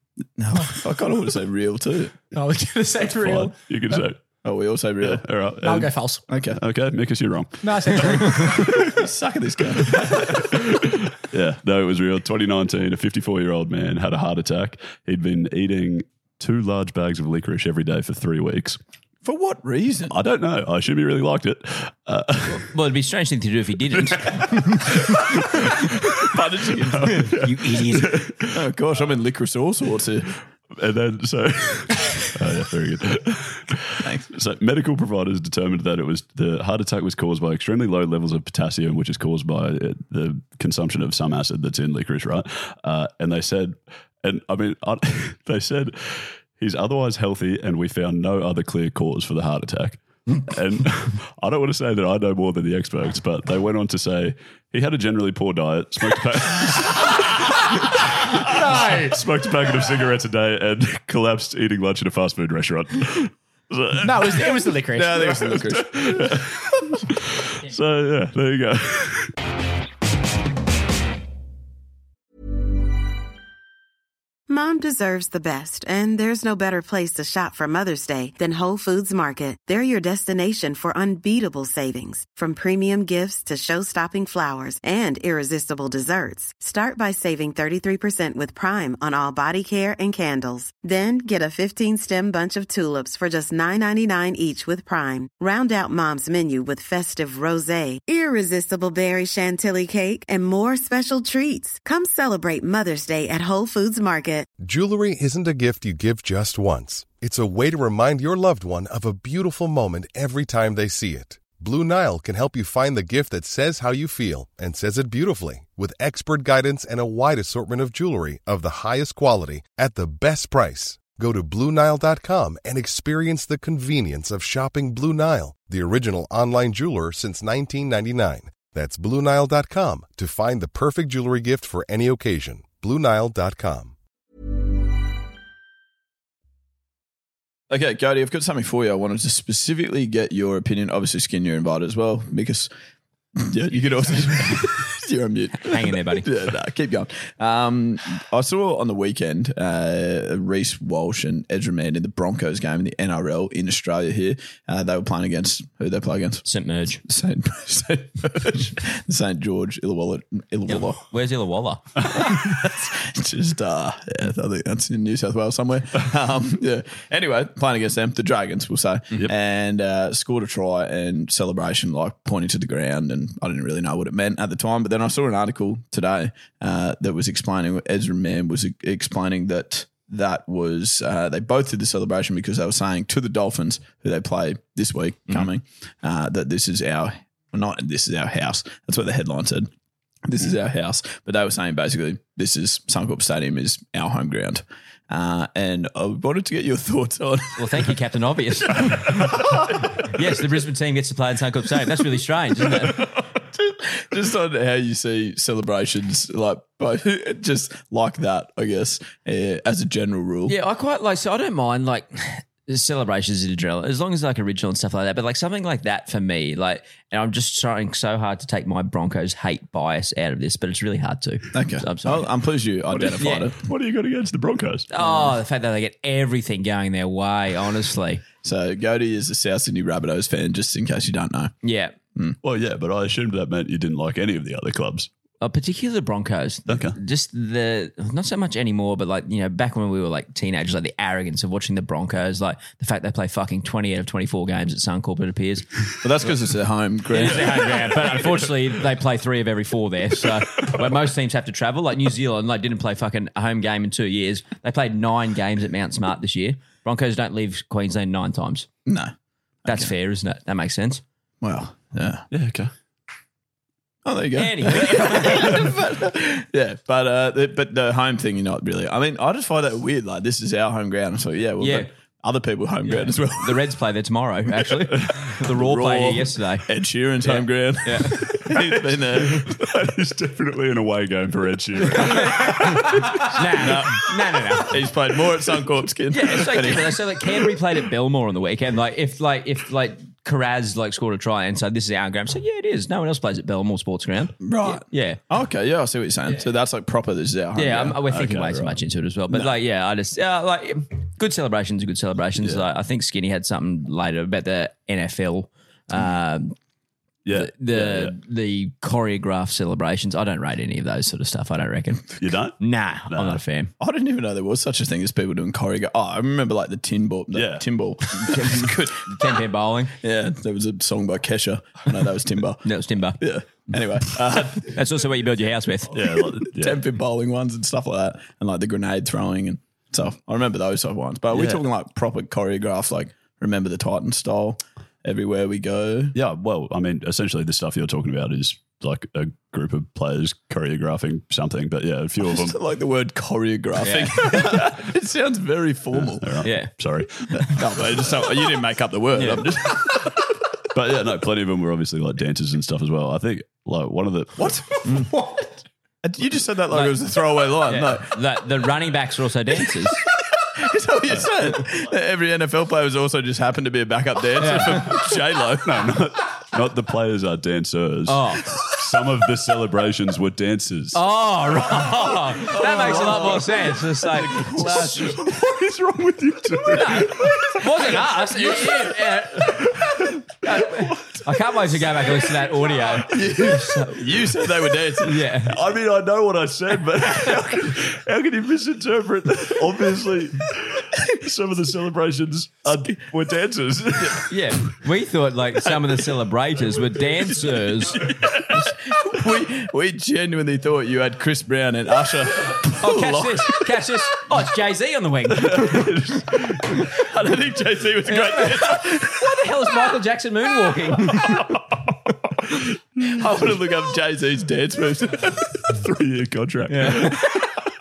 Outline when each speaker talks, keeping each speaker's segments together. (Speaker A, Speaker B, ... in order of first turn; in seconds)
Speaker A: 0.4-2.2, 4.4-5.2, 6.3-6.6, 8.4-10.4, 19.2-20.1, 26.2-27.3, 28.5-30.3, 34.0-34.3, 64.9-66.4, 137.7-142.7, 143.3-156.5, 157.0-161.0, 162.0-189.7, 190.2-197.9, 199.0-199.5, 203.0-210.5, 221.5-223.6, 228.4-231.5, 246.0-247.8, 258.9-259.1, 261.4-262.3, 264.0-273.6, 275.5-279.4, 283.6-284.1, 284.6-287.5, 294.4-298.0, 313.8-319.4, 320.0-322.7, 323.2-324.8, 326.5-336.1, 342.2-346.4, 347.4-350.1, 354.4-355.1, 356.0-358.1, 360.4-365.9, 372.4-375.3, 383.0-385.2, 398.0-403.6, 406.5-409.2, 413.1-415.6, 416.7-417.1
Speaker B: 2.3-3.6, 5.6-6.3, 7.6-8.8, 58.5-59.2, 64.0-65.6
Speaker C: 3.2-4.2, 5.0-8.8, 10.3-18.8, 20.1-22.7, 24.3-26.2, 26.8-28.5, 30.8-64.7, 65.5-69.3, 222.9-224.9, 232.4-235.1, 236.7-237.0, 262.3-262.7, 278.3-283.2, 298.1-298.7, 307.2-308.1, 312.2-313.4, 317.3-317.6, 325.9-326.8, 336.1-342.6, 345.9-347.8, 350.7-354.8, 365.6-371.0, 372.6-373.3, 374.6-378.0, 379.5-380.1, 385.4-394.3, 405.3-406.9, 415.7-417.5
Speaker D: 22.5-24.5, 27.1-28.2, 145.6-146.3, 156.4-157.0, 160.7-162.0, 197.6-203.0, 210.5-222.3, 223.2-223.5, 224.9-228.2, 231.6-232.0, 235.4-245.7, 247.1-258.7, 259.6-261.0, 264.3-265.6, 271.6-271.9, 272.9-276.7, 277.2-278.4, 282.0-284.8, 286.1-295.2, 297.5-306.5, 307.3-313.7, 318.1-319.9, 322.6-323.2, 324.5-326.0, 343.8-344.6, 346.4-346.7, 349.1-349.5, 356.7-360.0, 364.4-364.9, 368.1-368.5, 370.9-375.1, 376.7-379.6, 380.4-384.1, 385.0-385.5, 394.3-398.1, 402.8-405.8, 408.1-411.3, 416.8-417.2
Speaker E: 74.5-104.5
Speaker F: 104.6-133.9